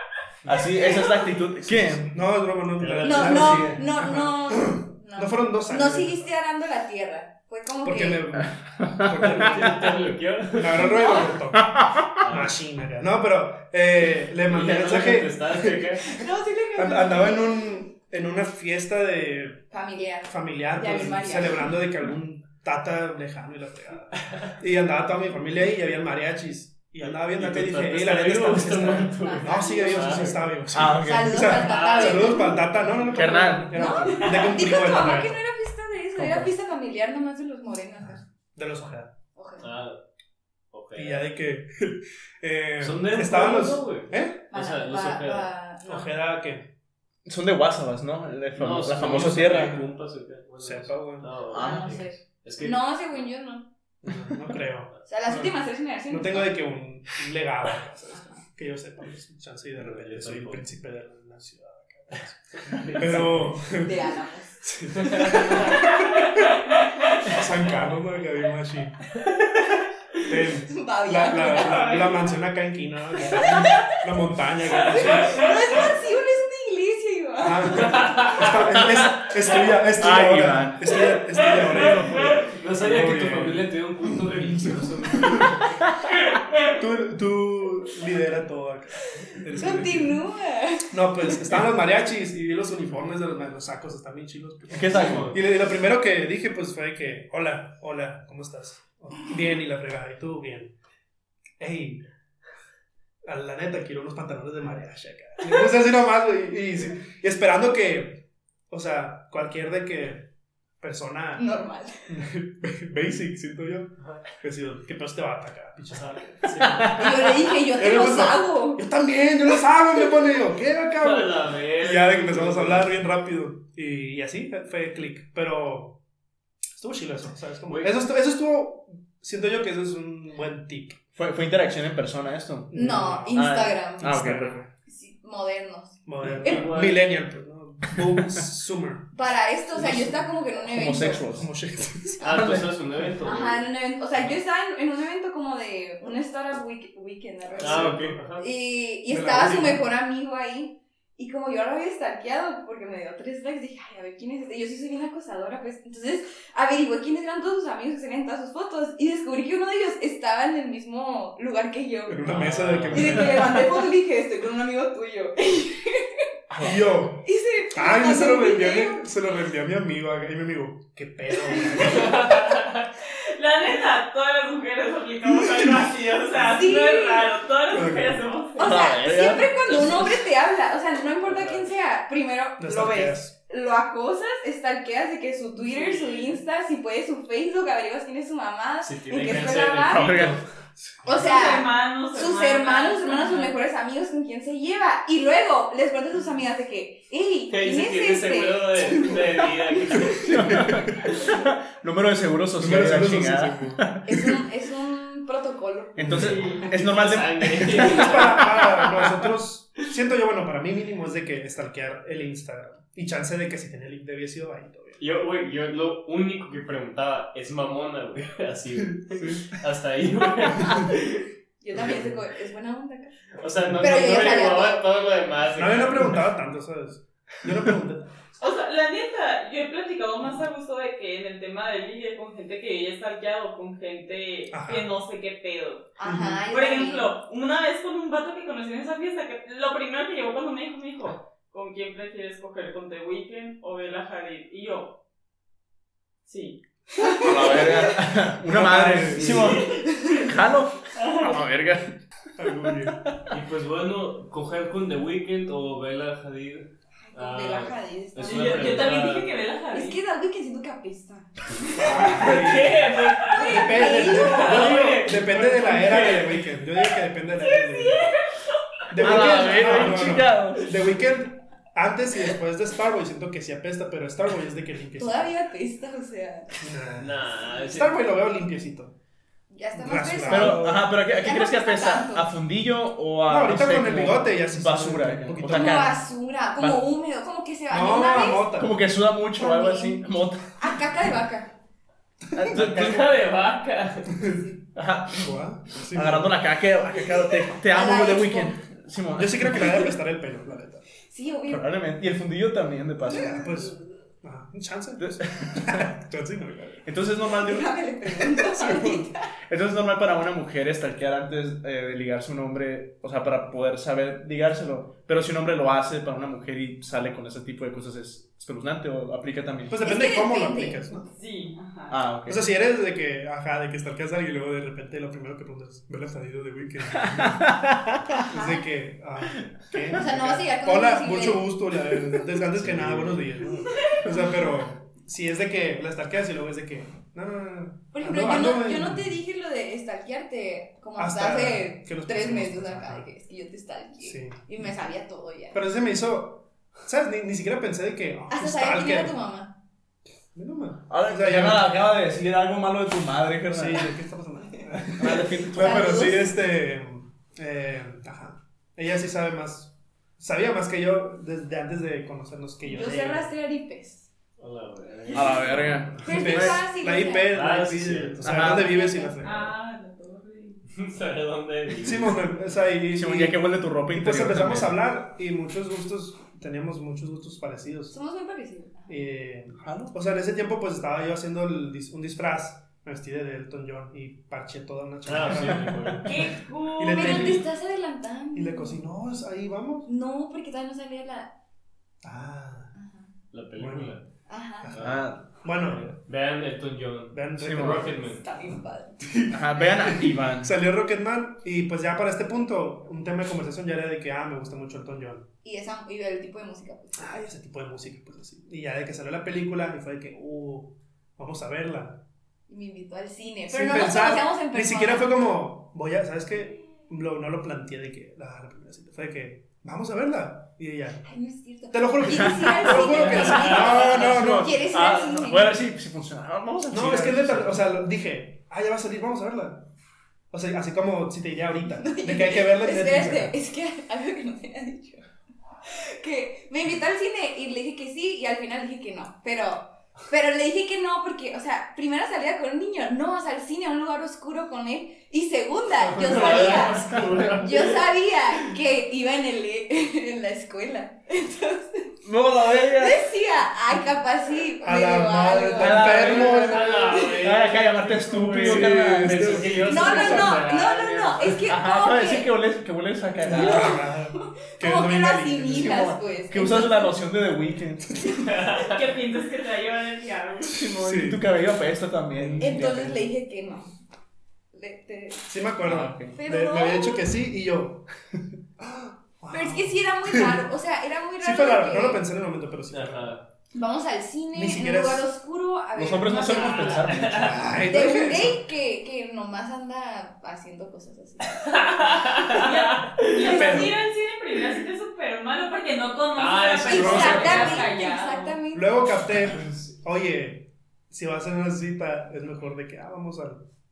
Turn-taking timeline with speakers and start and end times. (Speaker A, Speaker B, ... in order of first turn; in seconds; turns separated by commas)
Speaker A: 0.5-2.1, Speaker B: 0.7-1.2, Speaker C: 1.7-6.3, Speaker D: 2.8-3.4, Speaker B: 3.0-8.2, Speaker A: 3.2-3.8, Speaker C: 7.8-16.0, Speaker A: 8.6-9.7, Speaker D: 9.2-10.9, Speaker B: 10.8-11.3, Speaker A: 11.5-12.2, Speaker D: 12.2-12.5, Speaker D: 14.5-16.2, Speaker B: 16.1-17.7, Speaker C: 16.8-19.7, Speaker B: 19.7-21.8, Speaker C: 20.2-35.4, Speaker D: 27.1-30.4, Speaker B: 29.2-33.0, Speaker A: 30.7-31.6, Speaker D: 31.6-32.6, Speaker A: 33.1-33.9, Speaker B: 33.7-38.2, Speaker C: 38.0-39.1, Speaker B: 39.4-39.7, Speaker D: 39.6-40.0, Speaker D: 40.7-41.3, Speaker C: 40.9-44.4, Speaker D: 42.8-45.5, Speaker B: 44.5-46.1, Speaker C: 45.8-46.7, Speaker A: 47.3-49.8, Speaker D: 48.6-52.8, Speaker C: 49.0-49.9, Speaker C: 50.6-51.3, Speaker A: 51.5-52.0, Speaker B: 51.5-53.7, Speaker C: 54.0-54.9, Speaker B: 55.1-56.5, Speaker C: 56.1-65.9, Speaker D: 59.8-60.6, Speaker D: 62.6-63.5, Speaker B: 63.7-64.6, Speaker D: 64.9-66.0, Speaker C: 67.2-69.1, Speaker D: 69.3-69.6, Speaker C: 70.3-75.8, Speaker B: 70.7-72.3, Speaker B: 73.3-73.9, Speaker B: 74.9-78.1, Speaker C: 77.4-85.6, Speaker D: 77.8-78.6, Speaker A: 78.8-79.1, Speaker A: 80.0-81.0, Speaker D: 81.4-85.8, Speaker C: 86.7-90.2, Speaker B: 89.5-91.5, Speaker C: 90.9-100.7, Speaker A: 94.7-95.3, Speaker D: 94.9-95.4, Speaker C: 101.6-102.0, Speaker C: 103.2-111.5, Speaker B: 111.4-112.0, Speaker C: 112.1-116.9, Speaker D: 115.9-117.0, Speaker A: 116.7-117.2, Speaker B: 117.0-118.8, Speaker C: 117.5-126.0, Speaker D: 121.0-122.9, Speaker C: 126.8-131.0, Speaker D: 127.7-128.0, Speaker A: 131.2-132.8, Speaker C: 132.7-133.5, Speaker B: 132.7-134.1, Speaker A: 133.3-134.6, Speaker C: 134.0-134.7, Speaker B: 134.9-136.7, Speaker C: 136.1-139.1, Speaker D: 136.4-137.1, Speaker B: 139.1-141.2, Speaker C: 139.8-140.2, Speaker A: 140.6-141.5, Speaker C: 141.3-142.3, Speaker D: 142.2-143.6, Speaker A: 142.2-142.7, Speaker B: 143.2-162.3, Speaker C: 147.6-148.2, Speaker D: 147.6-148.5, Speaker C: 149.1-149.8, Speaker C: 162.1-163.7, Speaker D: 162.3-163.4, Speaker B: 162.9-166.1, Speaker A: 166.5-166.8, Speaker C: 166.6-172.3, Speaker B: 167.2-169.1, Speaker B: 171.6-172.1, Speaker D: 171.8-172.8, Speaker E: 173.2-178.9, Speaker B: 176.4-177.3, Speaker C: 177.7-178.3, Speaker B: 178.6-190.2, Speaker A: 178.6-180.1, Speaker D: 181.2-181.7, Speaker C: 182.6-183.3, Speaker D: 185.6-186.3, Speaker D: 188.8-190.4, Speaker A: 189.9-190.4, Speaker B: 191.0-199.2, Speaker E: 191.1-193.6, Speaker D: 197.5-200.7, Speaker C: 200.0-200.9, Speaker A: 200.2-204.3, Speaker C: 202.6-204.2, Speaker B: 204.1-206.4, Speaker A: 206.0-208.3, Speaker C: 206.0-206.5, Speaker E: 206.2-206.7, Speaker D: 206.8-208.8, Speaker C: 207.6-215.0, Speaker D: 215.0-221.3, Speaker C: 219.1-219.4, Speaker B: 221.6-223.2, Speaker D: 223.4-226.2, Speaker C: 223.6-224.1, Speaker B: 223.8-224.8, Speaker C: 225.6-228.1, Speaker E: 228.4-235.9, Speaker C: 234.5-234.9, Speaker B: 236.0-237.1, Speaker C: 236.0-236.4, Speaker E: 236.5-245.0, Speaker E: 246.2-247.4, Speaker B: 247.0-247.8, Speaker A: 247.1-252.0, Speaker C: 248.4-249.7, Speaker B: 249.9-250.3, Speaker E: 251.0-251.4, Speaker C: 252.4-253.0, Speaker A: 252.7-253.3, Speaker D: 253.3-259.3, Speaker B: 257.1-259.0, Speaker E: 258.2-260.0, Speaker B: 259.7-262.3, Speaker C: 261.8-262.9, Speaker D: 261.9-266.6, Speaker B: 263.2-264.7, Speaker C: 263.4-268.1, Speaker E: 264.2-264.8, Speaker C: 268.9-275.4, Speaker A: 269.0-270.7, Speaker B: 275.0-276.5, Speaker C: 276.6-278.9, Speaker D: 277.0-278.0, Speaker B: 279.5-282.3, Speaker C: 279.8-280.9, Speaker A: 280.3-286.0, Speaker C: 283.3-285.9, Speaker B: 285.5-288.5, Speaker C: 287.7-288.7, Speaker A: 288.5-290.5, Speaker B: 289.4-290.1, Speaker B: 290.6-291.5, Speaker A: 292.4-293.1, Speaker D: 292.5-294.1, Speaker B: 294.2-294.6, Speaker A: 294.8-295.3, Speaker C: 295.2-296.4, Speaker A: 295.9-299.9, Speaker B: 297.7-298.6, Speaker C: 299.1-300.9, Speaker B: 301.1-301.7, Speaker A: 301.5-303.4, Speaker C: 303.1-306.9, Speaker B: 303.1-303.5, Speaker A: 305.0-305.9, Speaker A: 306.9-307.8, Speaker B: 307.4-309.3, Speaker A: 308.5-319.8, Speaker C: 319.7-321.1, Speaker B: 319.8-320.8, Speaker E: 321.1-322.0, Speaker A: 321.9-322.4, Speaker C: 322.3-327.5, Speaker A: 327.0-328.3, Speaker B: 328.1-328.6, Speaker C: 328.2-339.2, Speaker B: 329.9-331.5, Speaker A: 332.6-333.1, Speaker B: 337.9-345.6, Speaker C: 341.0-343.1, Speaker C: 344.0-344.4, Speaker C: 345.5-349.1, Speaker B: 348.3-349.6, Speaker C: 350.3-351.7, Speaker A: 350.9-353.9, Speaker C: 353.5-363.3, Speaker A: 354.8-356.0, Speaker B: 355.1-356.4, Speaker B: 362.7-364.1, Speaker D: 364.4-365.9, Speaker A: 365.1-366.6, Speaker B: 365.9-367.4, Speaker C: 366.0-369.6, Speaker D: 367.3-368.3, Speaker A: 368.2-368.7, Speaker B: 368.3-369.2, Speaker E: 369.2-370.6, Speaker D: 370.7-372.2, Speaker C: 371.8-377.9, Speaker A: 372.9-374.7, Speaker B: 377.9-378.9, Speaker C: 378.9-387.5, Speaker A: 379.6-379.9, Speaker D: 385.1-386.3, Speaker A: 385.5-385.9, Speaker E: 386.0-387.4, Speaker B: 386.9-388.8, Speaker C: 388.3-389.9, Speaker B: 389.9-391.3, Speaker C: 392.0-392.7, Speaker B: 392.8-393.1, Speaker D: 393.3-394.1, Speaker C: 393.6-394.0, Speaker B: 394.3-394.7, Speaker C: 394.6-396.0, Speaker D: 394.7-395.1, Speaker A: 394.8-395.2, Speaker D: 395.9-398.2, Speaker C: 397.1-397.9, Speaker A: 397.4-397.9, Speaker B: 397.9-399.1, Speaker C: 399.0-405.3, Speaker A: 399.3-400.5, Speaker B: 405.4-407.1, Speaker C: 407.0-412.0, Speaker B: 412.5-415.3, Speaker C: 413.5-421.1, Speaker B: 421.1-425.5, Speaker C: 421.7-424.6, Speaker A: 422.1-427.6, Speaker D: 423.0-423.5, Speaker C: 426.7-429.7, Speaker C: 430.3-433.4, Speaker B: 431.8-435.0, Speaker B: 435.7-452.0, Speaker D: 445.8-447.8, Speaker A: 452.1-453.1, Speaker B: 452.7-456.2, Speaker C: 454.6-457.2, Speaker A: 455.6-459.7, Speaker D: 455.9-461.4, Speaker B: 456.9-457.2, Speaker C: 458.3-460.5, Speaker B: 459.6-462.3, Speaker A: 461.5-463.7, Speaker C: 463.2-465.9, Speaker B: 463.2-466.9, Speaker A: 465.6-468.1, Speaker D: 468.2-468.7, Speaker E: 468.6-470.6, Speaker A: 470.4-473.0, Speaker C: 470.6-471.2, Speaker C: 472.1-472.9, Speaker B: 472.4-473.7, Speaker B: 474.5-475.3, Speaker C: 475.3-477.9, Speaker A: 475.6-476.2, Speaker B: 476.1-477.1, Speaker C: 478.6-480.4, Speaker B: 479.3-482.0, Speaker C: 481.2-483.1, Speaker D: 482.7-483.3, Speaker B: 483.5-487.0, Speaker C: 484.3-485.1, Speaker A: 485.8-487.6, Speaker D: 486.9-487.4, Speaker C: 487.2-488.4, Speaker B: 487.7-492.4, Speaker D: 491.9-493.4, Speaker E: 492.1-498.4, Speaker C: 493.2-493.8, Speaker D: 496.2-497.6, Speaker B: 496.6-499.1, Speaker C: 496.7-497.6, Speaker C: 498.5-503.4, Speaker D: 499.3-499.6